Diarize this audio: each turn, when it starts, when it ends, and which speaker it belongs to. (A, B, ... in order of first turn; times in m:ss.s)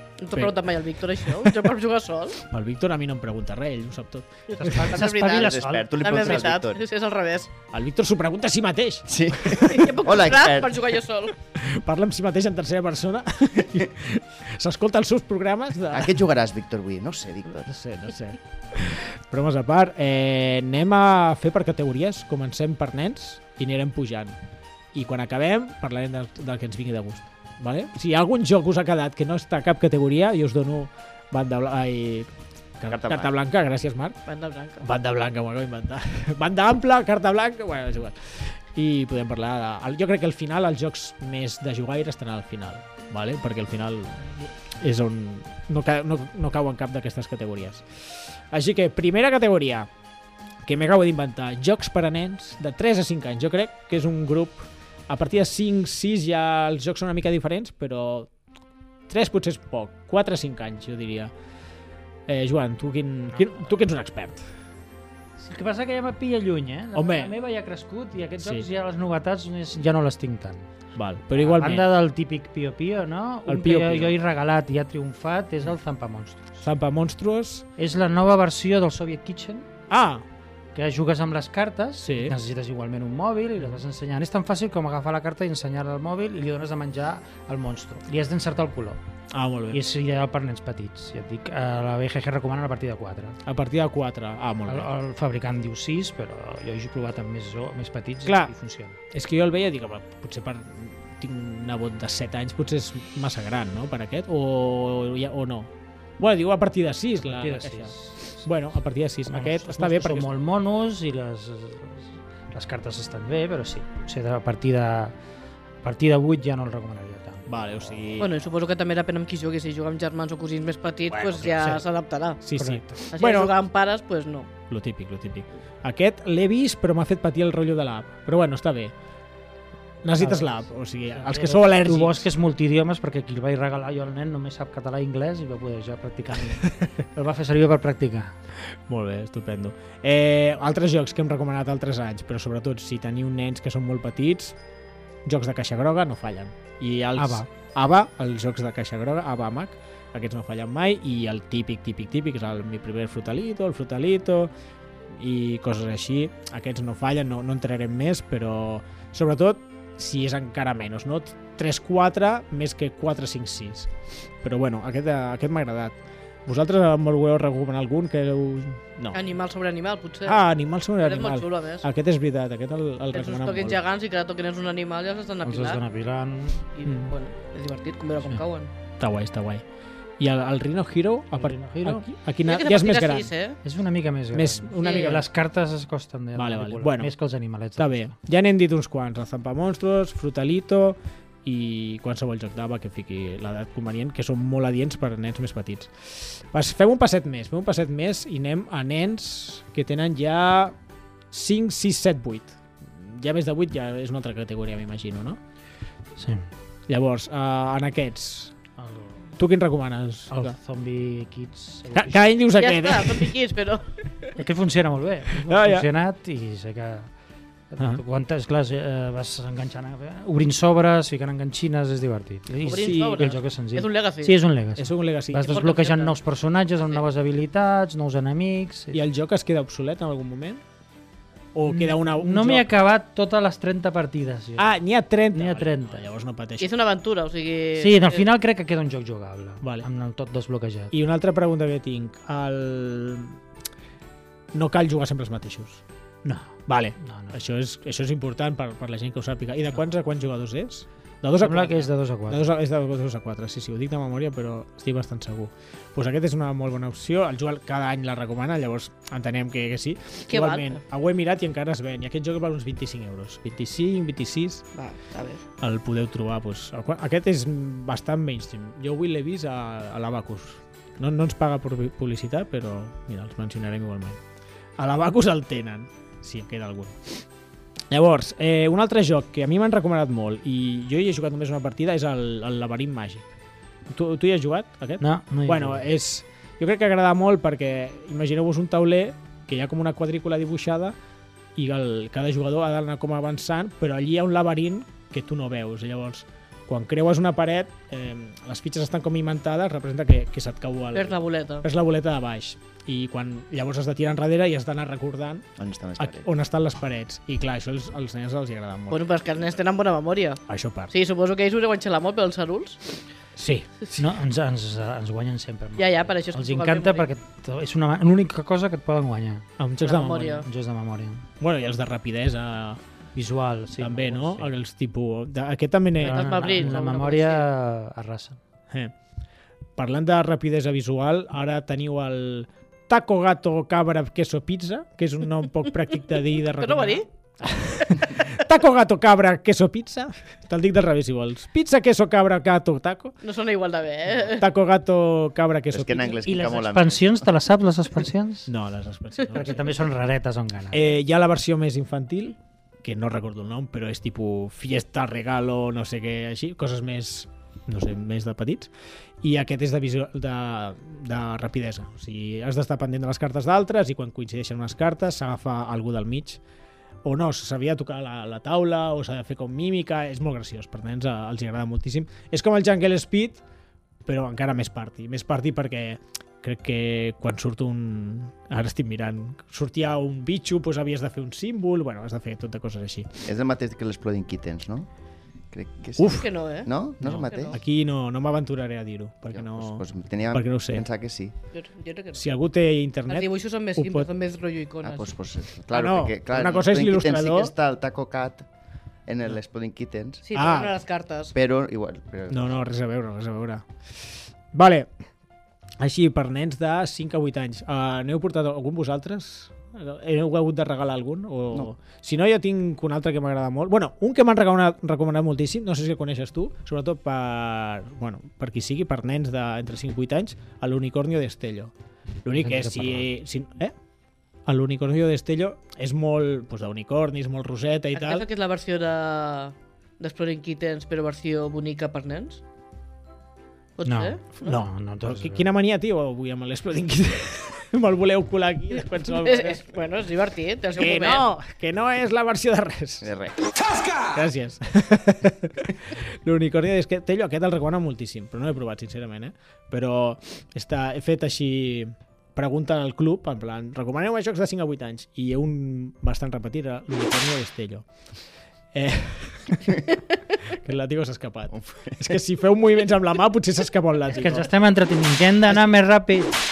0:00.2-0:02.4 A
0:01.2-0:01.7 B
0:02.4-0:04.9 B
0:04.5-0:06.5 C
0:04.8-0:07.5 A
0:04.8-0:06.8 D
0:07.7-0:09.9 B
0:09.1-0:10.9 D
0:09.7-0:11.4 A
0:11.6-0:16.2 B
0:15.9-0:17.7 D
0:17.6-0:24.4 B
0:24.9-0:34.2 B
0:32.9-0:33.3 D
0:34.3-0:34.9 A
0:34.8-0:49.9 B
0:50.6-0:58.3 B
0:59.1-1:01.3 B
1:02.3-1:04.5 B
1:03.3-1:03.7 C
1:05.4-1:10.7 C
1:07.0-1:07.3 B
1:08.4-1:08.7 B
1:11.0-1:11.9 B
1:11.3-1:16.5 C
1:13.5-1:14.1 B
1:16.6-1:17.7 B
1:17.8-1:19.7 C
1:19.9-1:20.2 B
1:20.7-1:29.0 C
1:22.0-1:22.4 B
1:29.3-1:29.8 B
1:29.7-1:33.4 C
1:33.4-1:34.9 B
1:34.7-1:39.0 C
1:38.2-1:38.5 B
1:39.1-1:50.3 B
1:47.2-1:48.4 C
1:49.3-1:55.2 C
1:55.8-1:57.6 C
1:57.5-1:58.4 B
1:58.2-2:02.4 A
2:01.1-2:01.8 B
2:02.4-2:03.6 B
2:02.6-2:03.0 C
2:03.1-2:04.5 A
2:04.7-2:08.9 B
2:10.0-2:12.3 B
2:10.2-2:10.6 C
2:11.2-2:18.3 C
2:16.5-2:16.9 B
2:18.6-2:24.6 B
2:25.2-2:34.5 B
2:27.2-2:27.5 C
2:35.1-2:43.9 B
2:44.4-2:49.2 B
2:49.1-2:50.5 A
2:50.3-2:53.8 B
2:51.0-2:51.9 A
2:53.1-2:55.8 A
2:55.4-2:56.6 C
2:56.8-2:58.7 A
2:56.8-2:57.1 B
2:59.0-2:59.6 B
3:00.2-3:03.3 B
3:01.4-3:02.1 C
3:02.5-3:03.6 A
3:03.6-3:08.1 C
3:04.3-3:05.2 B
3:04.8-3:05.2 A
3:06.4-3:07.1 B
3:07.8-3:20.8 B
3:21.3-3:25.4 B
3:26.2-3:26.5 C
3:26.9-3:28.6 B
3:28.8-3:29.3 C
3:29.4-3:30.6 B
3:30.3-3:32.2 C
3:31.9-3:33.3 B
3:32.5-3:34.0 A
3:34.4-3:37.1 C
3:35.4-3:35.9 B
3:37.7-3:49.0 C
3:42.6-3:44.4 A
3:42.8-3:43.3 B
3:44.8-3:45.7 B
3:45.4-3:46.2 A
3:48.9-3:50.6 B
3:51.6-3:52.7 B
3:51.7-3:54.7 C
3:54.6-3:56.7 B
3:55.3-3:56.0 C
3:56.6-3:58.2 A
3:57.8-4:00.9 C
3:59.6-3:59.9 B
4:00.9-4:03.4 B
4:04.5-4:05.8 B
4:06.2-4:07.4 C
4:06.7-4:24.7 B
4:11.4-4:12.5 C
4:20.3-4:20.8 A
4:24.8-4:25.4 A
4:25.6-4:34.2 B
4:34.8-4:37.2 B
4:37.9-4:43.2 B
4:43.9-4:51.0 B
4:45.0-4:45.9 C
4:51.6-5:09.0 B
5:00.9-5:01.7 A
5:05.6-5:06.3 D
5:08.9-5:12.8 A
5:10.5-5:10.9 B
5:13.4-5:14.0 B
5:14.0-5:19.5 C
5:15.8-5:17.1 A
5:19.6-5:20.4 B
5:19.8-5:20.5 A
5:20.4-5:21.3 C
5:21.4-5:22.8 B
5:23.2-5:24.5 C
5:23.8-5:26.8 B
5:26.0-5:28.4 C
5:26.0-5:27.5 A
5:29.8-5:43.2 B
5:36.5-5:37.1 A
5:43.2-5:44.5 A
5:44.3-5:46.2 B
5:45.7-5:47.3 D
5:46.2-5:48.5 C
5:48.5-5:49.6 B
5:49.3-5:50.9 C
5:50.7-5:58.7 B
5:59.2-6:06.4 B
6:07.0-6:13.4 B
6:14.1-6:23.2 B
6:23.2-6:24.9 D
6:25.5-6:27.6 D
6:26.0-6:26.3 B
6:26.1-6:27.6 A
6:27.0-6:30.9 B
6:29.3-6:31.3 D
6:31.5-6:32.3 A
6:32.1-6:34.1 B
6:33.1-6:35.1 A
6:34.8-6:38.5 D
6:35.7-6:37.5 B
6:39.1-6:40.2 D
6:40.2-6:41.3 A
6:40.3-6:40.8 B
6:41.3-6:42.6 D
6:42.3-6:44.9 B
6:45.8-7:01.7 B
7:02.2-7:03.7 B
7:02.4-7:03.1 C
7:04.5-7:08.3 B
7:07.9-7:12.4 A
7:13.8-7:14.4 A
7:13.8-7:15.5 C
7:14.4-7:19.6 B
7:19.1-7:21.3 A
7:20.8-7:23.1 B
7:23.0-7:23.5 D
7:24.0-7:37.9 B
7:38.7-7:39.8 B
7:40.5-7:44.5 B
7:41.5-7:42.1 D
7:44.1-7:46.4 C